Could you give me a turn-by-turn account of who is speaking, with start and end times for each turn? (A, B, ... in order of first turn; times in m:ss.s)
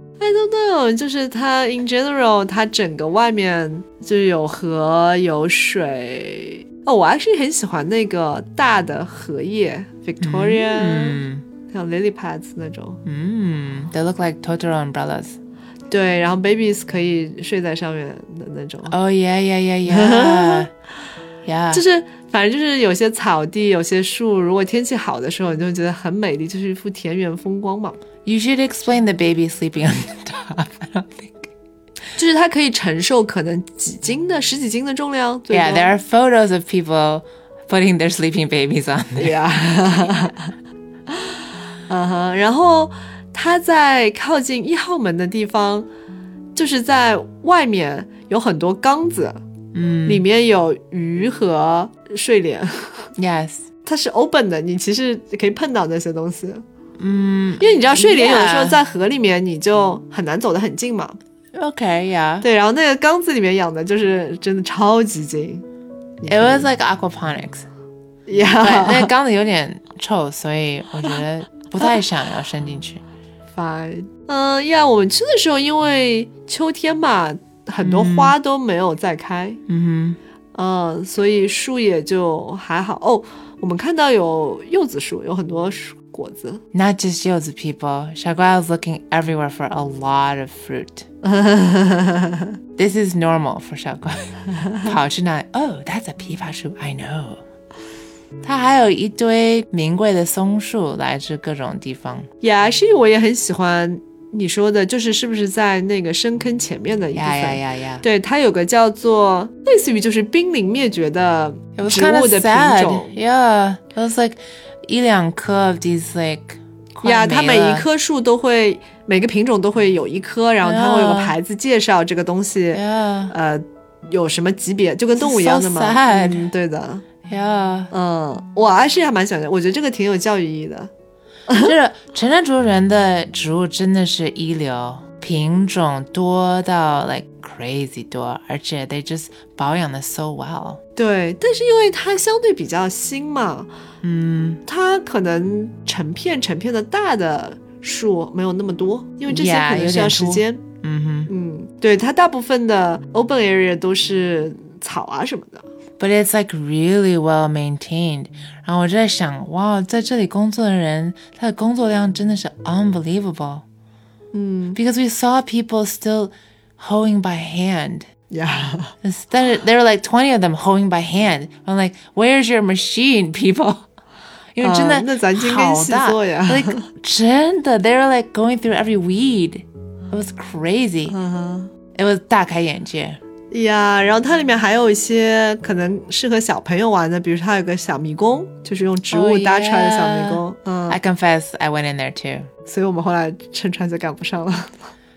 0:00.2-0:13.0 A
0:10.2-0:11.4 B
0:13.0-0:15.4 B
0:15.9-0:18.9 A
0:18.9-0:20.7 B
0:19.8-0:20.7 A
0:21.4-0:21.8 B
0:21.7-0:28.0 A
0:28.2-0:31.5 B
0:32.1-0:35.9 A
0:35.5-0:39.4 B
0:39.2-0:40.5 A
0:41.9-0:45.9 A
0:46.5-0:49.4 A
0:49.7-0:50.2 B
0:50.0-0:53.1 A
0:53.2-0:53.6 B
0:53.8-0:56.6 A
0:57.0-0:58.8 B
0:57.6-1:01.2 A
1:01.5-1:02.5 B
1:02.4-1:05.6 A
1:06.2-1:06.7 A
1:06.3-1:07.7 B
1:08.3-1:09.1 A
1:08.6-1:13.0 B
1:13.5-1:19.6 A
1:17.8-1:18.3 B
1:19.7-1:20.2 B
1:20.5-1:26.6 A
1:26.7-1:31.0 B
1:31.2-1:32.5 A
1:32.8-1:37.4 B
1:34.5-1:34.9 A
1:38.4-1:42.3 B
1:42.4-1:53.1 A
1:47.1-1:48.0 B
1:51.8-1:57.8 B
1:57.0-2:07.1 A
2:00.6-2:01.3 B
2:02.7-2:03.3 B
2:05.2-2:06.5 B
2:07.2-2:07.9 B
2:07.9-2:10.9 A
2:11.5-2:11.7 A
2:11.5-2:20.8 B
2:21.0-2:23.7 A
2:24.0-2:24.6 B
2:24.6-2:30.6 A
2:29.3-2:31.3 B
2:31.3-2:35.6 A
2:36.0-2:43.6 B
2:44.3-2:44.8 A
2:44.7-2:48.1 B
2:48.3-2:48.9 A
2:49.0-2:53.9 B
2:54.5-3:01.1 B
2:54.6-2:56.9 A
3:01.1-3:01.7 A
3:01.9-3:03.2 B
3:03.5-3:11.0 A
3:09.1-3:12.5 B
3:12.6-3:14.9 A